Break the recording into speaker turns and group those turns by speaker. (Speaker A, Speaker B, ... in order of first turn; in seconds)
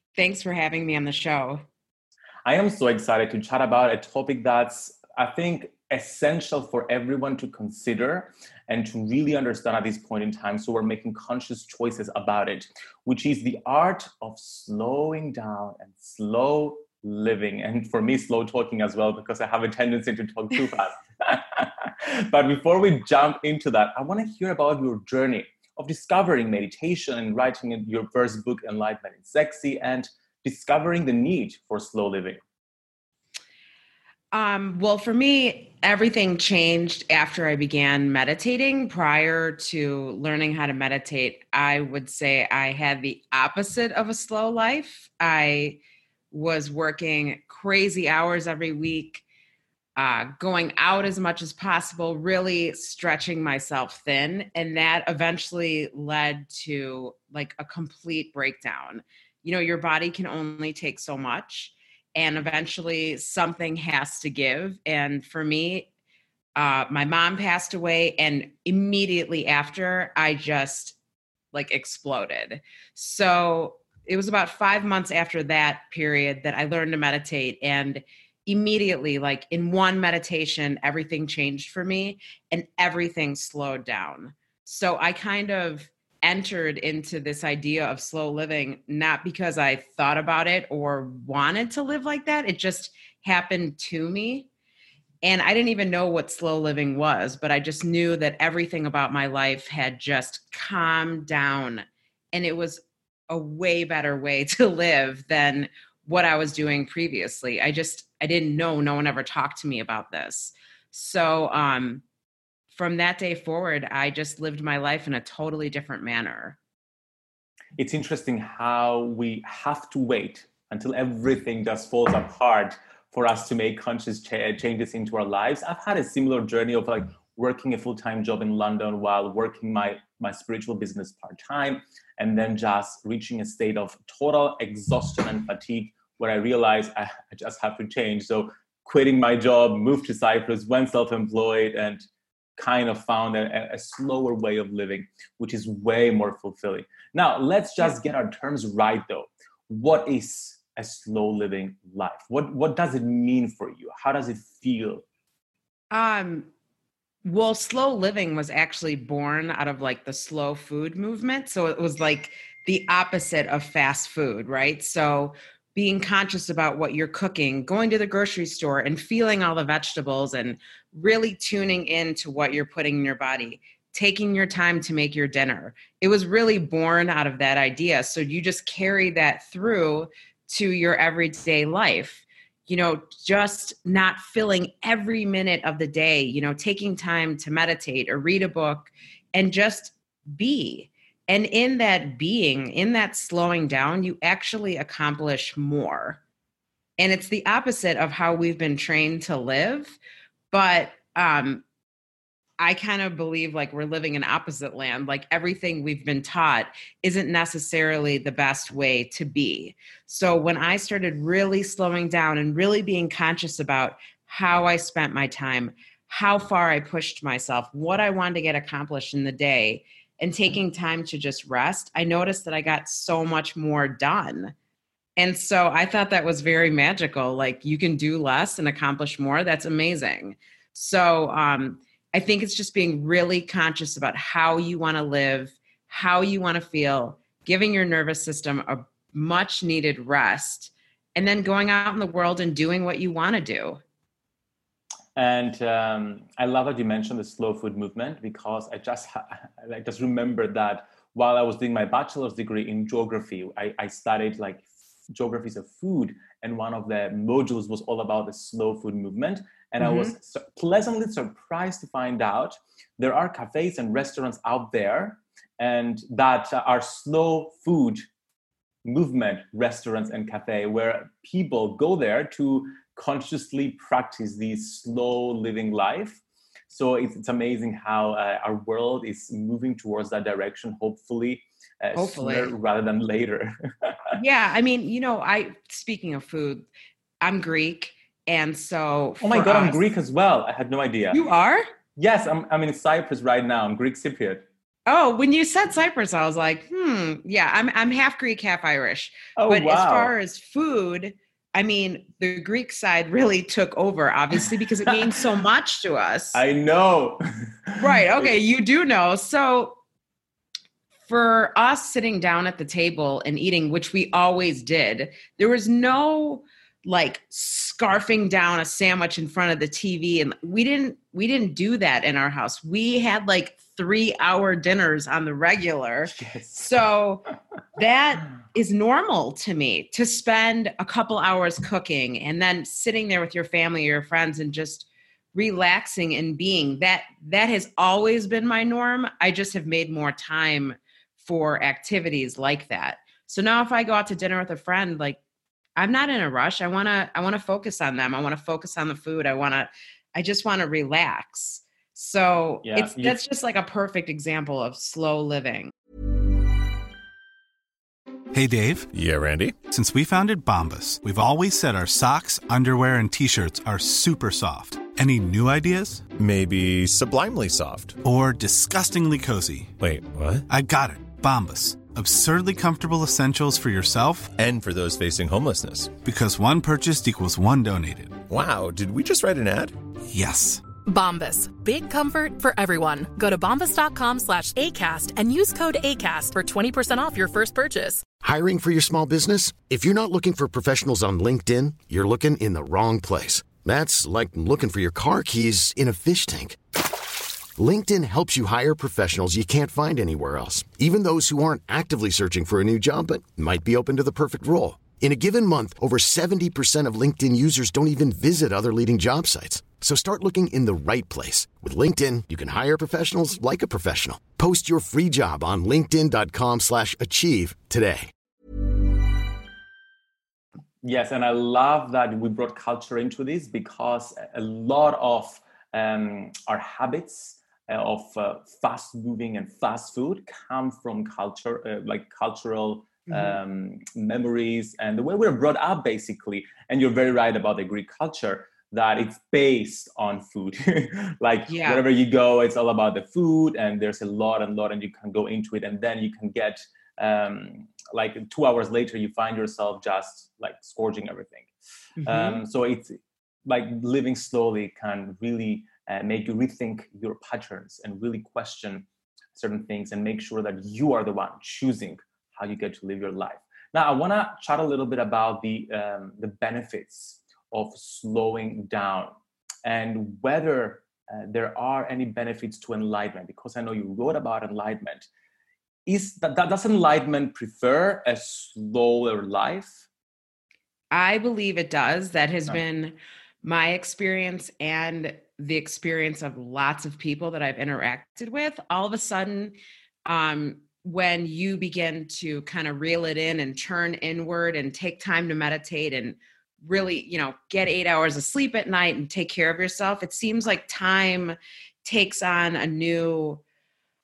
Speaker A: 0.1-1.6, 34.3-45.8, 46.3-49.2, 50.0-65.9, 66.5-71.0, 71.5-94.5, 95.2-112.0, 112.7-116.6, 155.9-156.5, 157.2-196.2, 197.0-200.0, 200.5-201.6, 202.6-224.5, 225.2-243.8, 259.8-260.1, 281.9-282.5, 284.1-286.6, 287.2-289.8, 291.1-291.6, 294.9-306.4, 307.8-309.8, 311.1-327.2, 327.8-345.2, 345.8-355.7, 433.1-433.4, 441.5-441.8, 452.0-452.4, 480.9-503.4
Speaker B: 2.4-32.4, 117.8-142.0, 142.6-155.0, 245.2-268.1, 268.8-284.0, 289.2-291.2, 292.0-294.4, 299.4-300.1, 306.3-308.3, 326.1-326.7, 352.6-353.2, 420.8-451.5, 452.0-452.9, 453.4-469.1, 469.6-475.1, 475.9-479.8
Speaker C: 358.3-358.9, 359.7-366.1, 368.0-369.7, 370.5-374.3, 376.0-378.2, 380.1-380.6
Speaker D: 358.9-359.6, 366.2-368.0, 369.8-370.4, 374.4-375.9, 378.3-379.7
Speaker E: 380.9-388.0
Speaker F: 388.2-396.6, 397.6-418.1